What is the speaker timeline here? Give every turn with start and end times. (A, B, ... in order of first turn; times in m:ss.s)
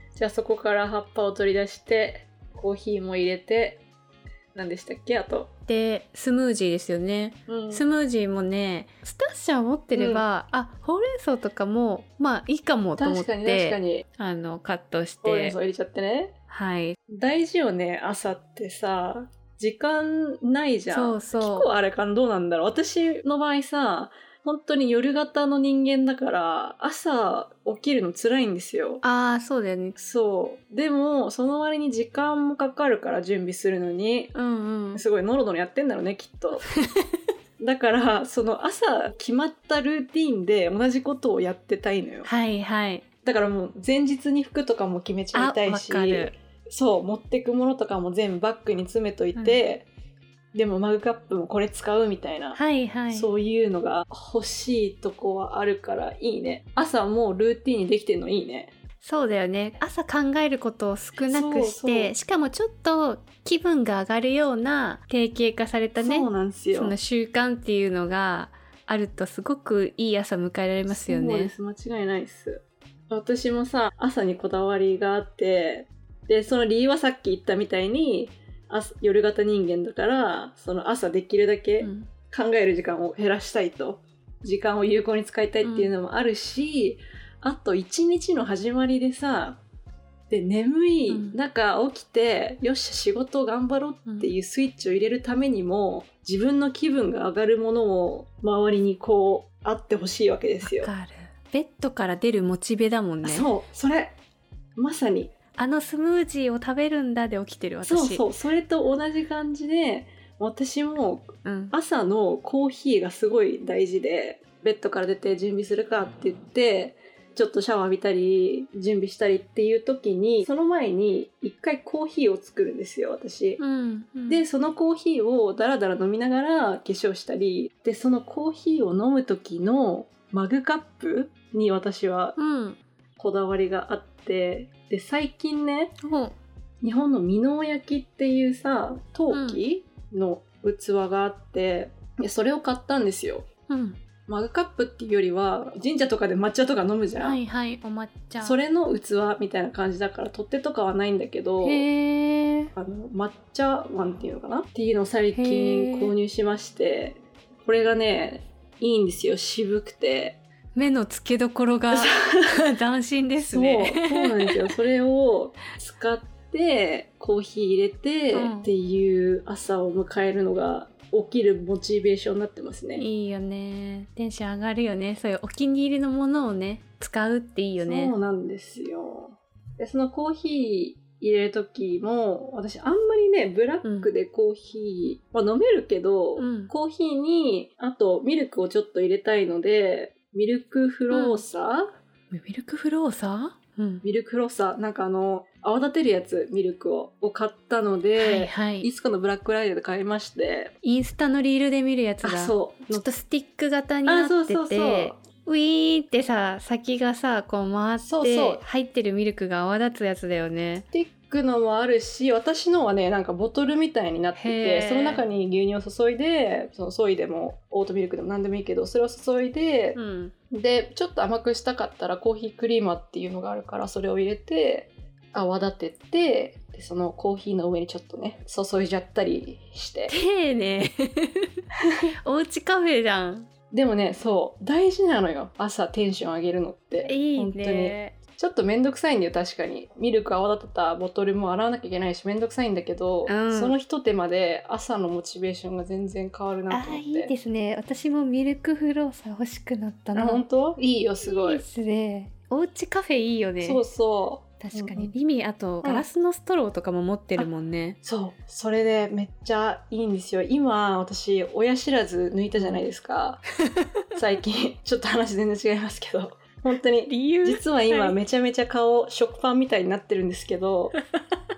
0:00.2-0:03.8 A
0:04.5-0:05.5 A
0:05.7-0:15.6 B
0:07.5-0:07.8 A
0:09.9-0:10.2 A
0:13.0-0:14.0 A
0:15.2-0:16.3 A
0:16.5-0:17.0 B
0:17.1-0:29.0 A
0:20.9-0:21.7 B
0:29.0-0:29.9 B
0:30.0-0:34.3 A
0:34.3-0:35.0 B
0:34.9-0:36.6 A
0:37.6-0:42.3 A
0:42.2-0:43.0 B
0:43.2-0:49.8 A
0:45.3-0:46.3 B
0:49.4-0:49.6 B
0:50.5-0:52.6 A
0:52.5-0:53.3 B
0:53.1-0:58.7 A
0:59.0-1:11.5 B
1:01.2-1:02.1 A
1:06.0-1:07.0 A
1:10.9-1:29.6 A
1:21.8-1:22.1 B
1:25.6-1:25.9 B
1:30.3-1:40.9 A
1:31.1-1:31.4 B
1:34.0-1:34.3 B
1:40.6-1:43.5 B
1:43.2-1:44.1 A
1:44.8-1:45.3 A
1:45.6-1:48.2 B
1:47.8-2:03.6 A
1:51.4-1:51.7 B
2:03.6-2:04.4 B
2:04.3-2:12.4 A
2:12.4-2:12.8 B
2:13.2-2:16.0 A
2:16.0-2:16.3 B
2:16.8-2:23.4 A
2:19.3-2:19.6 B
2:23.7-2:24.0 B
2:24.3-2:27.4 A
2:27.2-2:28.6 B
2:28.4-2:31.9 A
2:31.6-2:32.7 B
2:32.8-2:40.4 A
2:35.3-2:36.1 B
2:40.7-2:44.6 B
2:41.9-2:42.4 A
2:43.4-2:53.0 A
2:48.3-2:48.7 B
2:53.0-2:58.1 B
2:57.8-3:11.9 A
3:03.8-3:04.1 B
3:06.4-3:06.7 B
3:11.1-3:11.4 B
3:12.3-3:14.0 B
3:14.0-3:20.7 A
3:18.2-3:18.9 B
3:20.8-3:30.8 B
3:22.2-3:23.1 A
3:24.0-3:25.2 A
3:28.0-3:28.6 A
3:30.9-3:40.0 A
3:34.4-3:35.2 B
3:39.9-3:40.3 B
3:40.5-3:50.1 A
3:50.1-3:51.5 B
3:52.2-3:53.5 B
3:53.7-4:07.3 A
3:57.0-3:58.1 B
4:03.2-4:03.8 B
4:06.7-4:10.4 B
4:10.1-4:11.6 A
4:11.2-4:13.8 B
4:13.6-4:15.1 A
4:14.6-4:18.0 B
4:18.0-4:23.4 A
4:24.1-4:30.9 A
4:27.1-4:28.2 B